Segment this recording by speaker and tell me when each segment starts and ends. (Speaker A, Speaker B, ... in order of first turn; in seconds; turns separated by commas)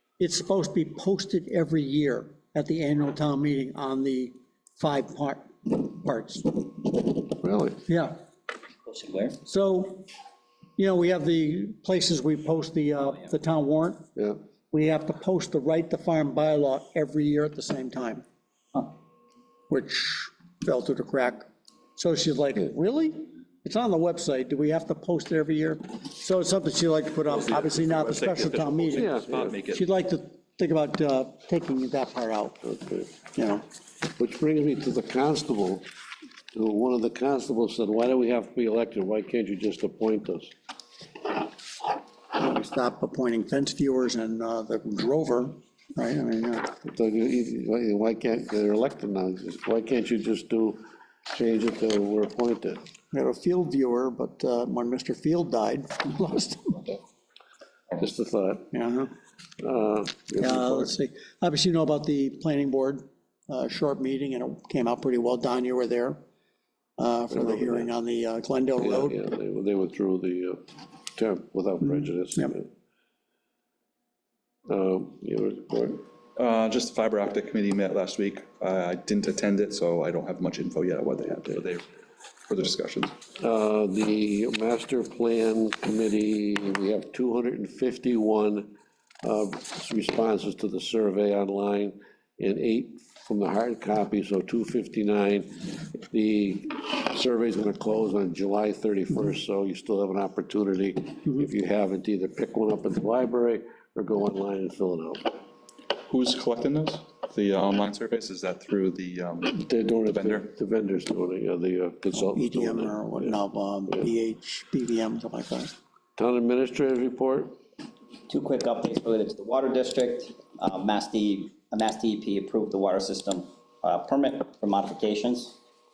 Speaker A: 0.2-7.0, Speaker B: 7.3-7.8, Speaker A: 7.9-8.1, Speaker C: 8.8-9.4, Speaker A: 9.4-10.1, Speaker A: 10.8-14.1, Speaker A: 14.7-18.2, Speaker A: 19.7-29.1, Speaker D: 27.2-29.9, Speaker B: 28.9-29.6, Speaker A: 29.7-32.6, Speaker B: 32.6-33.1, Speaker A: 33.2-33.7, Speaker B: 34.0-35.9, Speaker B: 36.5-40.5, Speaker A: 42.3-46.7, Speaker B: 46.8-52.8, Speaker A: 53.1-57.0, Speaker B: 58.0-58.8, Speaker A: 58.7-59.1, Speaker B: 59.6-60.9, Speaker A: 60.4-66.2, Speaker A: 67.0-69.2, Speaker B: 67.3-67.9, Speaker B: 68.8-72.7, Speaker B: 74.7-76.0, Speaker D: 76.3-81.8, Speaker D: 82.5-83.1, Speaker B: 83.4-105.4, Speaker D: 106.1-110.5, Speaker B: 109.4-113.4, Speaker A: 112.1-115.7, Speaker B: 116.2-117.5, Speaker C: 118.3-125.6